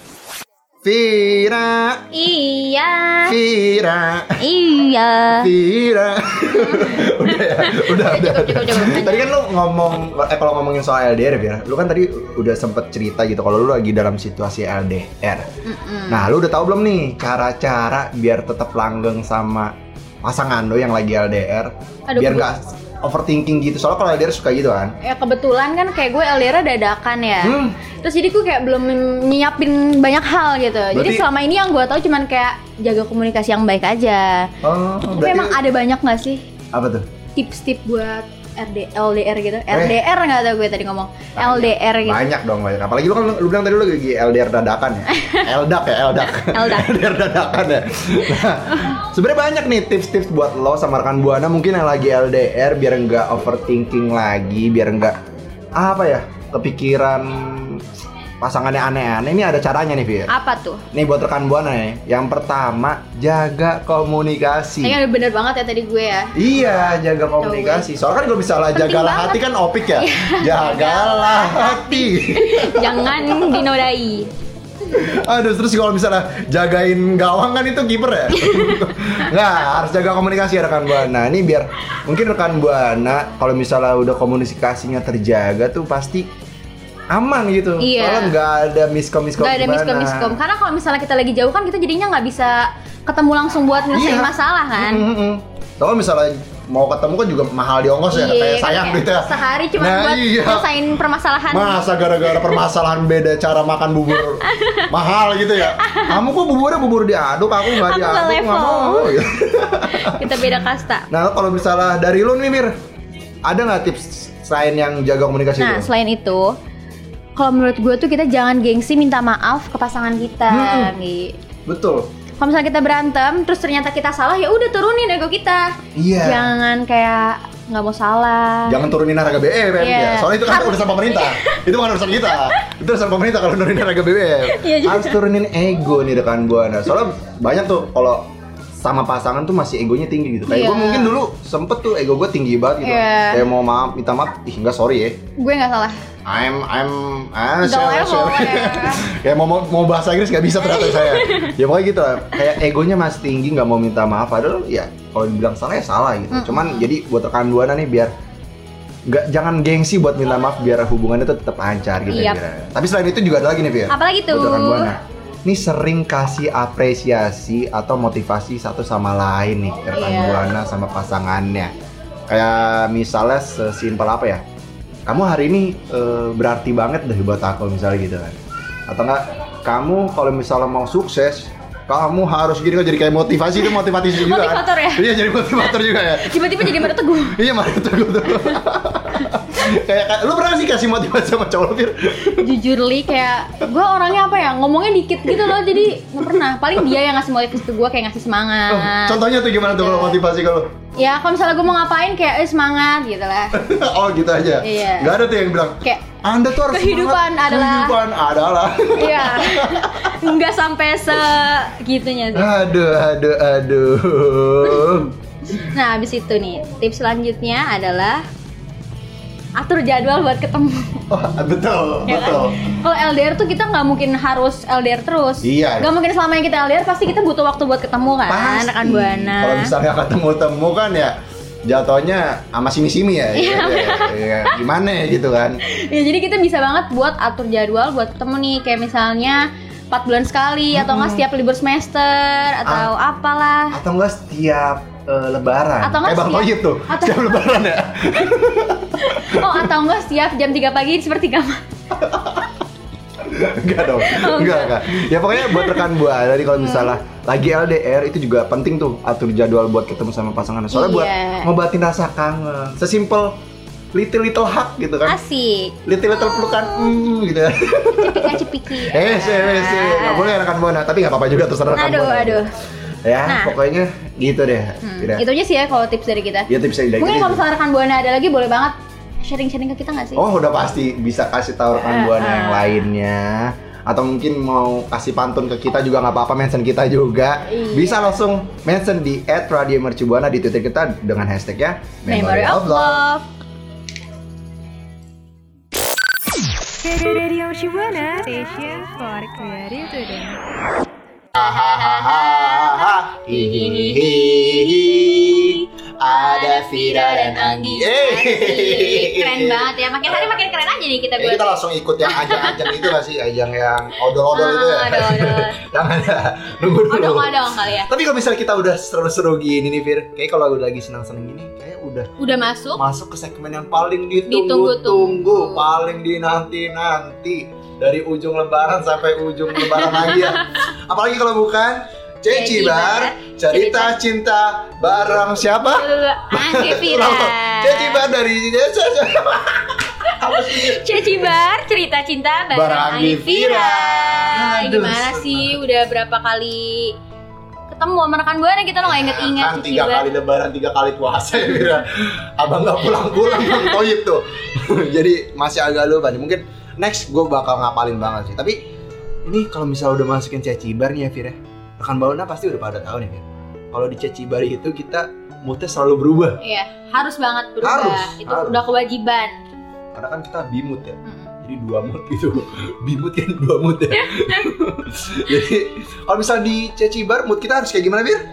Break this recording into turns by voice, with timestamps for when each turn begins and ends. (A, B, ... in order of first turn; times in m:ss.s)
0:00.8-0:02.0 A
0:02.1-0:03.4 B
0:03.3-0:04.4 A
0:04.4-0:05.5 B
0:05.4-0:15.5 A
0:06.5-0:09.3 B
0:15.6-0:16.3 B
0:16.1-0:25.0 A
0:22.1-0:22.5 B
0:25.0-0:34.5 B
0:27.4-0:27.8 A
0:30.9-0:31.2 A
0:34.6-0:35.6 A
0:35.1-0:36.4 B
0:36.7-0:37.0 A
0:37.4-0:42.2 B
0:39.7-0:40.0 A
0:41.4-0:55.2 A
0:45.1-0:45.4 B
0:46.3-0:47.0 B
0:55.8-0:57.8 A
0:58.4-1:00.3 A
1:00.3-1:00.8 B
1:00.9-1:05.0 A
1:04.8-1:06.3 B
1:06.3-1:13.7 A
1:07.4-1:07.9 B
1:08.7-1:09.4 B
1:10.0-1:14.3 B
1:14.9-1:26.3 A
1:18.3-1:18.9 B
1:27.1-1:30.4 A
1:27.8-1:28.4 B
1:29.4-1:35.0 B
1:33.9-1:40.7 A
1:38.1-1:42.6 B
1:41.5-1:50.5 A
1:44.4-1:44.9 B
1:45.7-1:46.2 B
1:47.6-1:49.2 B
1:49.9-1:51.1 B
1:51.1-1:52.8 A
1:53.4-1:55.9 A
1:55.6-1:56.6 B
1:57.4-2:01.4 B
2:00.5-2:00.9 A
2:01.6-2:02.1 A
2:02.4-2:08.8 B
2:05.9-2:06.5 A
2:08.7-2:25.2 A
2:09.8-2:11.6 B
2:12.2-2:12.6 B
2:14.4-2:15.2 B
2:20.5-2:21.2 B
2:22.8-2:23.4 B
2:25.4-2:26.0 B
2:26.2-2:38.1 A
2:27.6-2:29.0 B
2:30.6-2:31.5 B
2:36.3-2:36.9 B
2:39.0-2:51.7 A
2:42.1-2:42.4 B
2:43.9-2:44.9 B
2:49.9-2:50.5 B
2:52.3-2:54.4 A
2:55.0-2:58.4 A
2:58.9-3:12.5 A
3:03.6-3:07.4 B
3:12.4-3:20.2 B
3:15.3-3:15.8 A
3:18.7-3:20.7 A
3:21.0-3:23.6 B
3:23.5-3:30.3 A
3:24.6-3:25.2 B
3:26.6-3:28.0 B
3:29.0-3:32.5 B
3:32.3-3:35.1 A
3:35.5-3:38.2 B
3:39.6-3:41.0 B
3:41.1-3:42.6 A
3:42.1-3:49.7 B
3:45.4-3:45.9 A
3:48.3-3:55.6 A
3:53.3-3:54.6 B
3:55.6-4:03.8 B
4:00.7-4:01.2 A
4:02.6-4:02.9 A
4:03.7-4:09.7 A
4:05.8-4:07.4 B
4:09.0-4:11.6 B
4:11.9-4:12.6 A
4:13.2-4:23.4 A
4:14.0-4:15.8 B
4:16.5-4:17.0 B
4:20.7-4:21.5 B
4:23.9-4:25.2 A
4:25.0-4:27.0 B
4:25.8-4:32.4 A
4:28.0-4:30.4 B
4:31.7-4:32.5 B
4:33.0-4:35.2 A
4:33.2-4:33.5 B
4:34.8-4:40.2 B
4:36.5-4:37.4 A
4:40.1-4:53.0 A
4:41.7-4:42.8 B
4:47.5-4:48.2 B
4:52.1-4:53.3 B
4:56.9-5:00.3 C
4:59.5-5:00.2 B
5:01.4-5:10.5 A
5:01.4-5:05.5 B
5:06.0-5:12.9 B
5:11.2-5:22.1 A
5:14.3-5:15.6 B
5:16.9-5:17.9 B
5:22.2-5:22.8 B
5:22.7-5:41.4 A
5:24.3-5:25.6 B
5:29.6-5:30.4 B
5:32.3-5:34.0 B
5:35.7-5:38.0 B
5:40.1-5:46.9 B
5:42.5-5:45.6 A
5:47.7-5:50.1 B
5:48.8-5:58.6 A
5:59.2-6:06.4 A
6:06.4-6:09.4 B
6:07.6-6:08.7 A
6:09.9-6:18.2 A
6:11.0-6:11.3 B
6:13.9-6:14.5 B